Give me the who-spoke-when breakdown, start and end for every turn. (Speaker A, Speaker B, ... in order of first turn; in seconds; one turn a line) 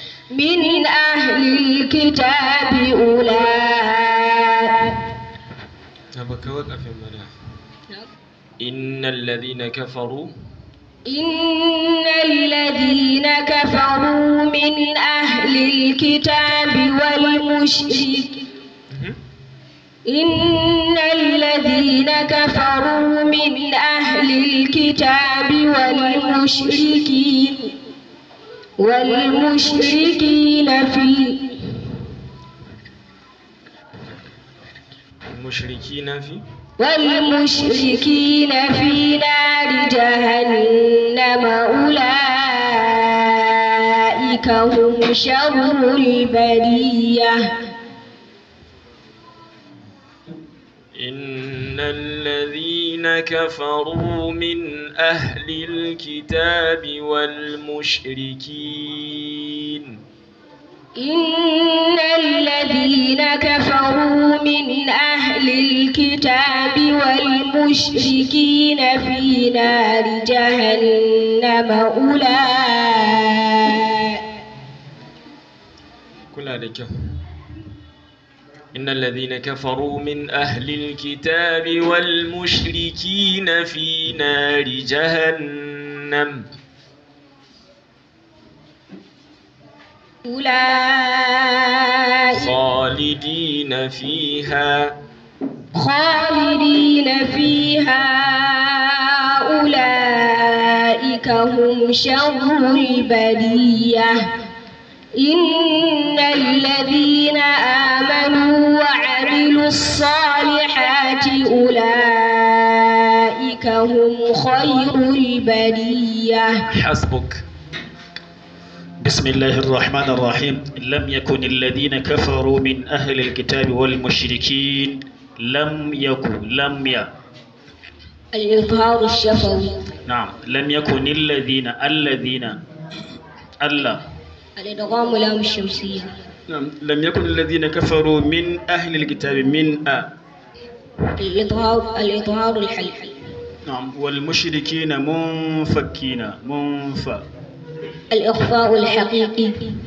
Speaker A: 0.3-5.1
Speaker B: 6.1-7.3
Speaker B: 8.6-10.3
Speaker A: 11.1-18.5
Speaker A: 20.1-27.8
Speaker A: 28.8-31.7
Speaker B: 35.3-36.4
Speaker A: 36.8-47.5
Speaker B: 50.9-60.0
Speaker A: 61.0-74.2
Speaker B: 76.3-77.2
Speaker B: 78.7-86.4
Speaker A: 90.2-92.5
Speaker B: 92.3-95.0
Speaker A: 95.7-104.3
Speaker A: 105.2-116.6
Speaker B: 116.7-117.4
Speaker C: 119.0-127.1
Speaker A: 128.3-129.8
Speaker C: 130.1-132.6
Speaker C: 133.6-134.0
Speaker A: 134.6-136.1
Speaker C: 136.5-140.1
Speaker A: 141.2-143.2
Speaker C: 143.7-147.2
Speaker A: 148.1-149.8